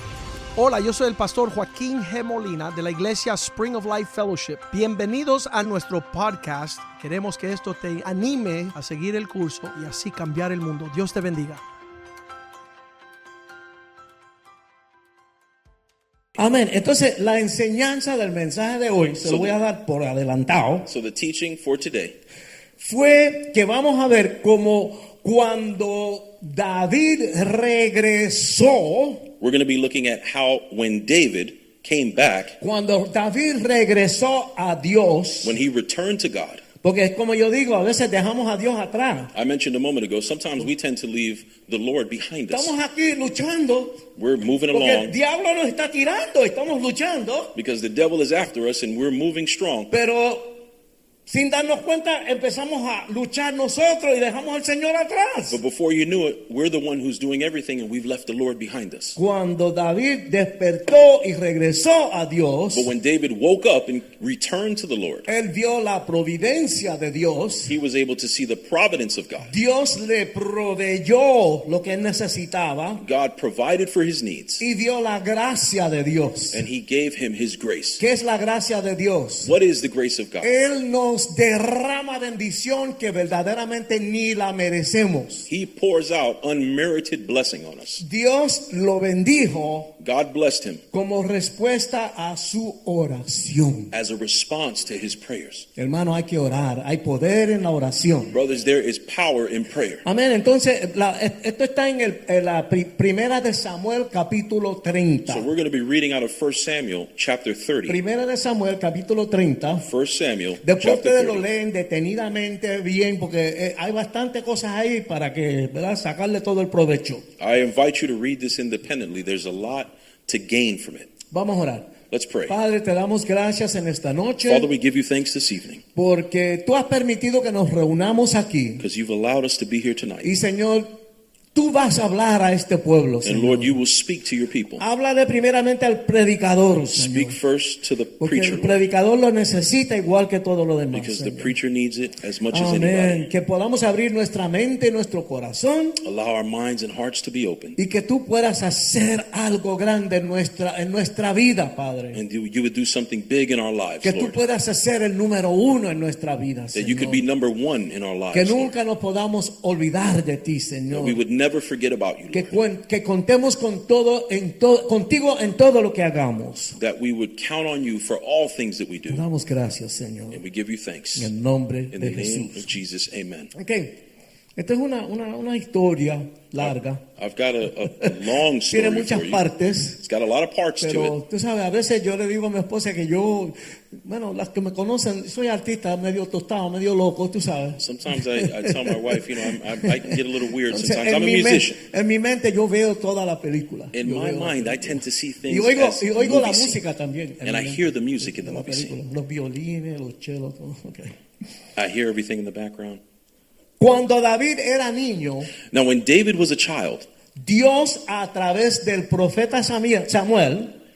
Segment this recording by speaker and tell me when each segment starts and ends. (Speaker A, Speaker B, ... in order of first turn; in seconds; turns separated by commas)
Speaker A: 0.6-11.6, Speaker B: 16.4-20.9, Speaker C: 19.2-19.6, Speaker C: 20.9-22.2, Speaker B: 22.8-29.3, Speaker C: 29.4-32.6, Speaker B: 32.6-35.6, Speaker C: 35.4-36.6, Speaker B: 36.8-39.3, Speaker C: 39.3-42.7, Speaker B: 42.5-44.0, Speaker C: 44.1-45.1, Speaker B: 44.7-47.5, Speaker C: 47.5-49.9, Speaker B: 49.9-50.6, Speaker B: 51.3-55.6, Speaker C: 55.5-59.2, Speaker B: 59.1-62.9, Speaker C: 62.7-65.3, Speaker B: 65.3-67.7, Speaker C: 67.7-69.5, Speaker B: 69.5-73.0, Speaker C: 73.0-74.6, Speaker B: 74.6-76.6, Speaker C: 76.5-78.0, Speaker B: 78.0-79.5, Speaker C: 79.4-80.5, Speaker B: 80.4-85.5, Speaker C: 85.5-88.0, Speaker B: 88.0-89.9, Speaker C: 90.0-90.8, Speaker B: 90.9-93.9, Speaker C: 93.9-95.7, Speaker B: 95.8-98.4, Speaker C: 98.3-100.0, Speaker B: 100.0-105.5, Speaker C: 105.3-108.0, Speaker B: 107.9-109.8, Speaker C: 109.8-111.5, Speaker B: 110.6-117.2, Speaker C: 117.4-121.1, Speaker B: 121.3-121.9, Speaker C: 122.1-122.5, Speaker B: 122.5-124.7, Speaker C: 124.5-125.8, Speaker B: 125.9-128.8, Speaker C: 128.8-130.3, Speaker B: 130.2-131.0, Speaker B: 131.5-133.7, Speaker C: 133.2-134.8, Speaker B: 134.8-137.4, Speaker C: 136.9-138.8, Speaker B: 138.2-141.5, Speaker C: 140.9-143.3, Speaker B: 142.5-146.0, Speaker C: 146.0-147.8, Speaker B: 147.8-152.2, Speaker C: 152.1-154.4, Speaker B: 154.0-157.2, Speaker C: 156.7-158.7, Speaker B: 158.3-161.2, Speaker C: 160.9-162.5, Speaker B: 162.3-166.8, Speaker C: 166.8-169.2, Speaker B: 169.1-170.4, Speaker C: 170.3-171.3, Speaker B: 171.2-172.7, Speaker C: 171.9-173.5, Speaker B: 173.5-174.0, Speaker B: 174.6-177.0, Speaker C: 176.6-179.4, Speaker B: 177.9-178.2, Speaker B: 178.7-180.0, Speaker C: 180.0-181.2, Speaker B: 180.8-187.8, Speaker C: 187.8-191.8, Speaker B: 188.4-201.2, Speaker C: 193.9-196.8, Speaker C: 197.4-198.9, Speaker C: 201.8-203.0, Speaker B: 203.8-205.5, Speaker C: 205.7-207.1, Speaker B: 207.4-210.7